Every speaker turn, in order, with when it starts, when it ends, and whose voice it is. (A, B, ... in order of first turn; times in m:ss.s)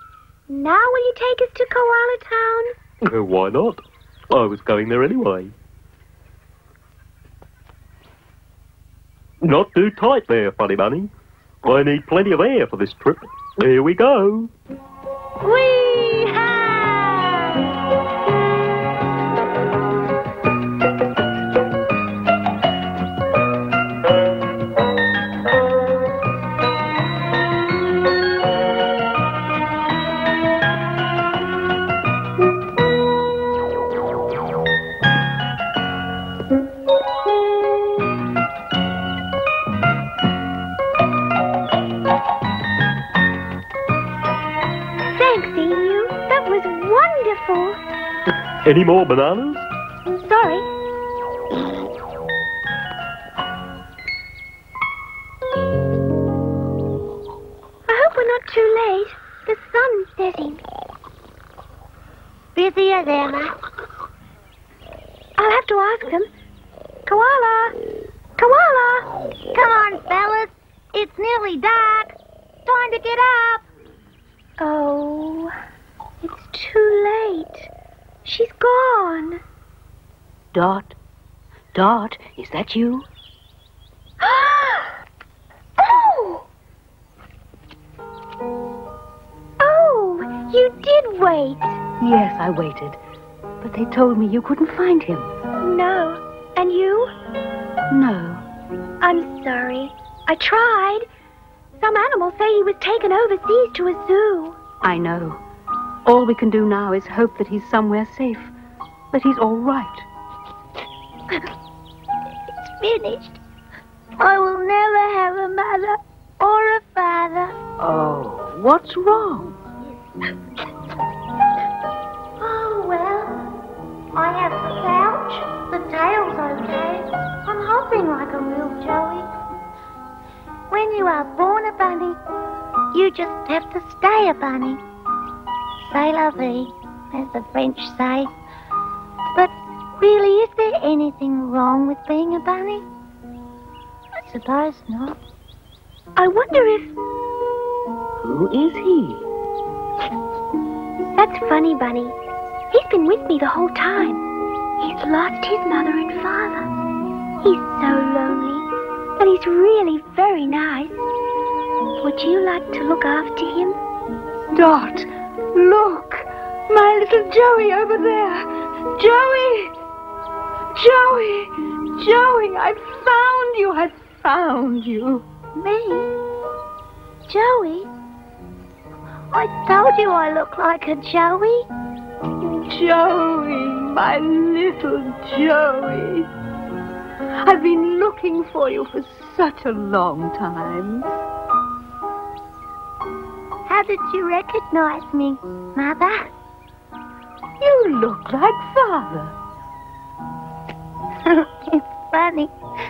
0:00.5-0:02.7 A
0:03.0-0:05.5 B
0:09.4-0:11.1 B
0:11.6-0:14.5 B
0:15.4-0:17.6 C
0:45.2-0:47.8 A
0:48.6-0:49.7 B
0:50.2-0:50.7 A
0:57.9-1:00.6 A
1:02.6-1:03.6 C
1:05.4-1:06.3 A
1:07.1-1:07.8 A
1:08.4-1:09.1 A
1:09.5-1:13.6 C
1:14.6-1:15.5 A
1:16.2-1:17.7 A
1:18.2-1:19.4 A
1:20.5-1:21.0 D
1:21.7-1:23.1 D
1:25.8-1:26.4 A
1:29.6-1:31.8 A
1:32.0-1:33.0 D
1:33.6-1:35.3 D
1:35.6-1:37.1 A
1:37.9-1:38.4 D
1:39.0-1:41.1 A
1:41.8-1:44.6 A
1:44.8-1:45.4 D
1:46.1-1:48.5 D
1:49.1-1:50.1 D
1:52.6-1:53.4 C
1:54.2-1:57.6 C
1:57.8-1:59.6 D
2:02.4-2:03.6 C
2:04.1-2:09.3 C
2:10.7-2:12.2 C
2:12.9-2:14.8 C
2:15.8-2:18.3 C
2:19.3-2:22.9 C
2:24.2-2:25.2 C
2:26.2-2:27.0 A
2:28.2-2:29.2 D
2:31.2-2:32.2 A
2:32.7-2:34.2 A
2:34.8-2:36.7 A
2:37.4-2:38.7 A
2:39.2-2:41.0 A
2:42.0-2:43.8 A
2:44.5-2:49.7 D
2:50.8-2:55.2 D
2:55.6-2:56.1 C
2:57.3-2:57.9 C
2:59.3-3:01.7 C
3:02.4-3:06.3 D
3:07.4-3:11.1 D
3:13.7-3:16.3 C
3:17.6-3:19.4 D
3:21.2-3:22.5 C